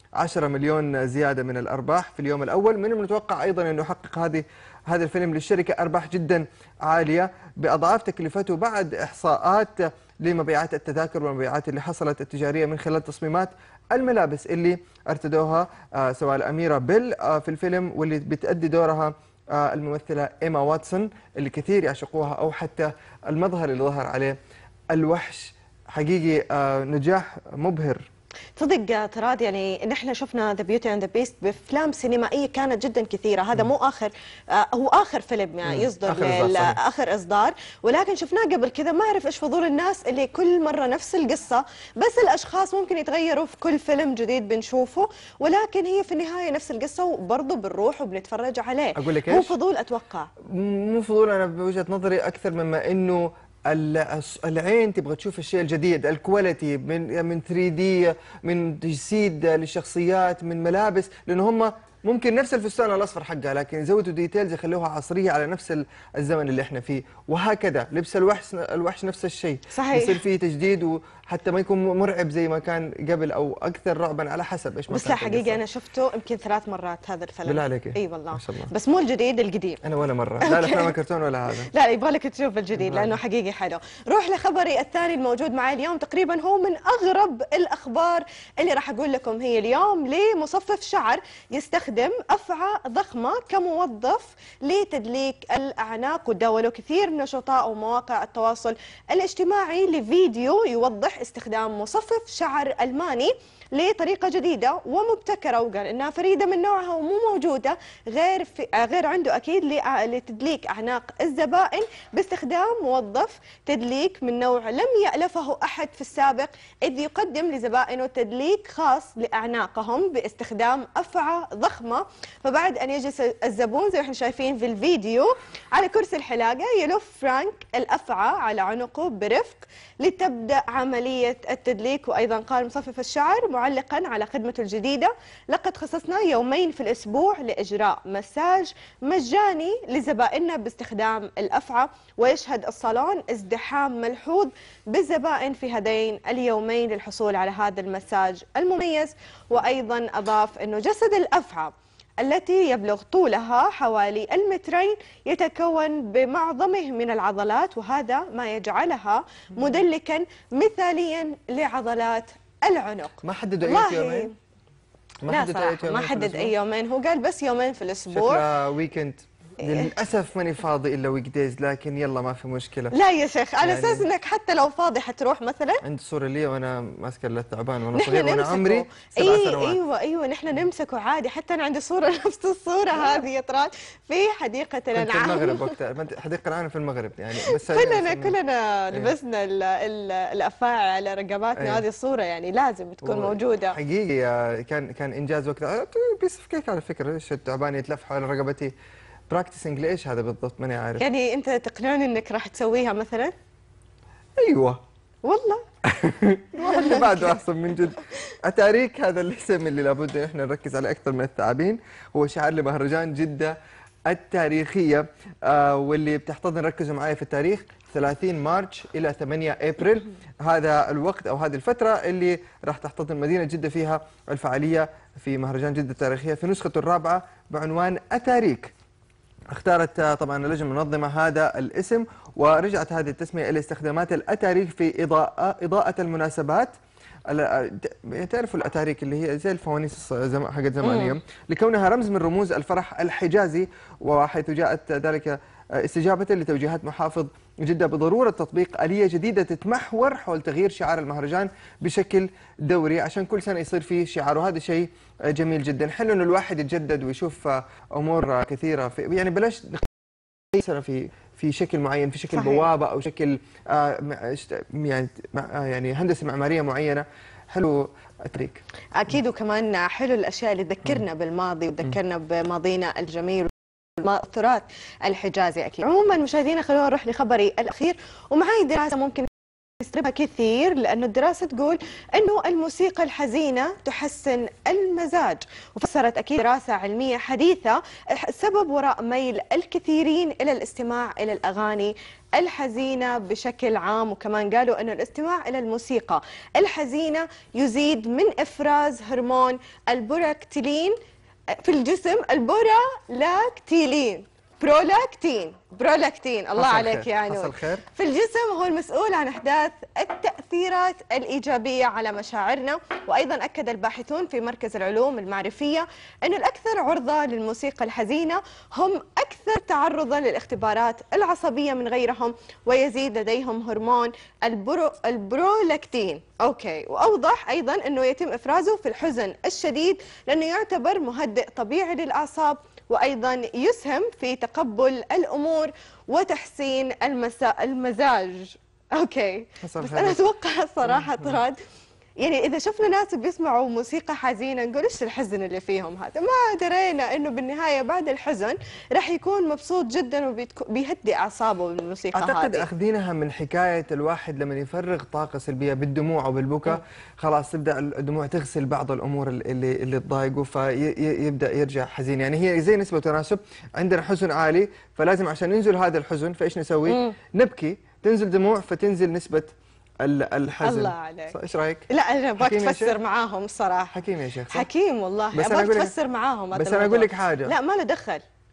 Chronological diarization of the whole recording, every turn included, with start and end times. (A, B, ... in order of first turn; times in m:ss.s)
0:00.2-0:24.4 A
0:24.9-0:28.1 A
0:28.6-0:50.3 B
0:35.6-0:36.8 A
0:49.0-0:49.5 A
0:50.4-1:15.6 A
1:09.7-1:10.2 B
1:14.9-1:19.8 B
1:17.4-1:18.7 A
1:19.8-1:21.7 A
1:20.4-1:20.9 B
1:21.7-2:44.3 B
1:22.7-1:23.2 A
2:43.2-2:44.3 A
2:45.2-2:46.5 A
2:45.3-2:48.4 B
2:48.1-2:52.9 A
2:52.9-2:55.8 B
2:53.6-2:54.1 A
2:55.8-2:59.8 A
2:57.9-3:05.8 B
3:04.9-3:08.4 A
3:07.4-3:13.8 B
3:11.6-3:11.8 A
3:13.0-3:18.7 A
3:19.3-3:21.0 A
3:21.0-3:23.3 B
3:24.4-3:24.8 A
3:25.2-3:25.6 B
3:25.8-3:48.7 A
3:26.6-3:27.4 B
3:28.0-3:28.3 B
3:49.5-3:56.7 A
3:57.3-4:19.9 A
4:00.8-4:01.1 B
4:20.5-4:28.6 A
4:22.3-4:22.7 B
4:28.9-4:39.3 B
4:39.8-5:01.0 B
5:01.5-5:41.6 B
5:06.6-5:07.8 A
5:39.6-5:40.2 A
5:42.2-5:52.6 B
5:52.1-6:11.9 A
6:06.8-6:07.2 B
6:10.6-6:11.3 B
6:11.9-6:14.0 B
6:12.4-6:13.0 A
6:13.9-6:14.7 A
6:14.5-6:18.2 B
6:15.3-6:15.9 A
6:16.5-6:17.5 A